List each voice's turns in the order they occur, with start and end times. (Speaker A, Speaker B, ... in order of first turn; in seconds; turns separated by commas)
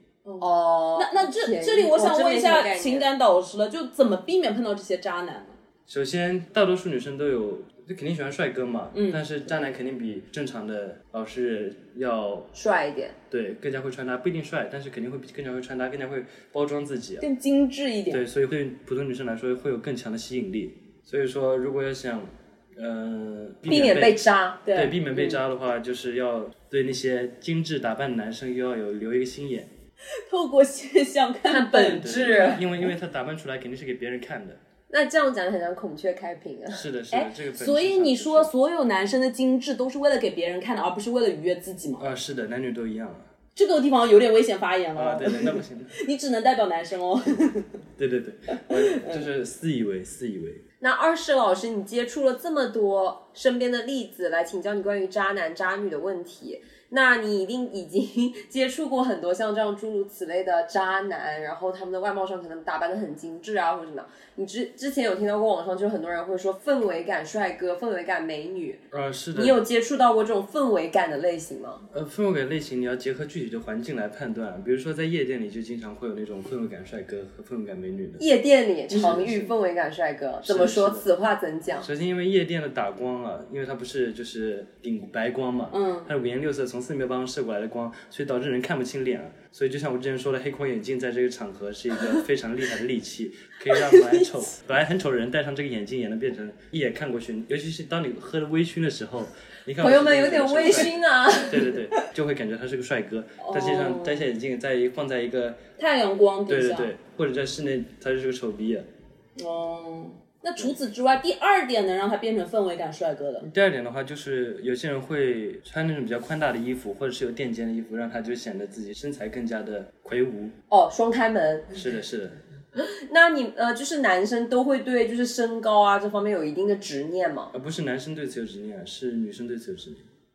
Speaker A: 0.2-5.5, Speaker B: 0.4-3.1, Speaker C: 5.9-12.5, Speaker A: 8.9-9.2, Speaker B: 12.5-13.2, Speaker C: 13.3-17.2, Speaker A: 17.2-18.2, Speaker C: 18.1-29.7, Speaker B: 23.7-24.6, Speaker A: 24.6-25.0, Speaker A: 30.2-32.7, Speaker B: 31.4-32.6, Speaker C: 31.9-34.6, Speaker B: 34.9-36.9, Speaker C: 36.7-38.5, Speaker A: 37.1-42.0, Speaker C: 42.0-43.2, Speaker A: 43.5-47.8, Speaker C: 45.0-45.9, Speaker C: 48.0-50.6, Speaker A: 48.7-49.2, Speaker B: 50.8-68.8, Speaker C: 68.9-69.6, Speaker B: 69.3-71.8, Speaker C: 71.9-78.2, Speaker B: 78.2-81.9, Speaker C: 78.9-79.5, Speaker C: 80.4-81.0, Speaker C: 81.8-105.6, Speaker A: 85.7-86.1, Speaker A: 93.7-94.5, Speaker B: 99.8-101.8, Speaker A: 103.4-104.3, Speaker A: 105.8-106.9, Speaker C: 106.5-108.8, Speaker A: 109.4-113.5, Speaker C: 113.4-120.5, Speaker B: 120.7-121.7, Speaker C: 121.7-122.4, Speaker B: 122.7-127.5, Speaker C: 127.5-130.0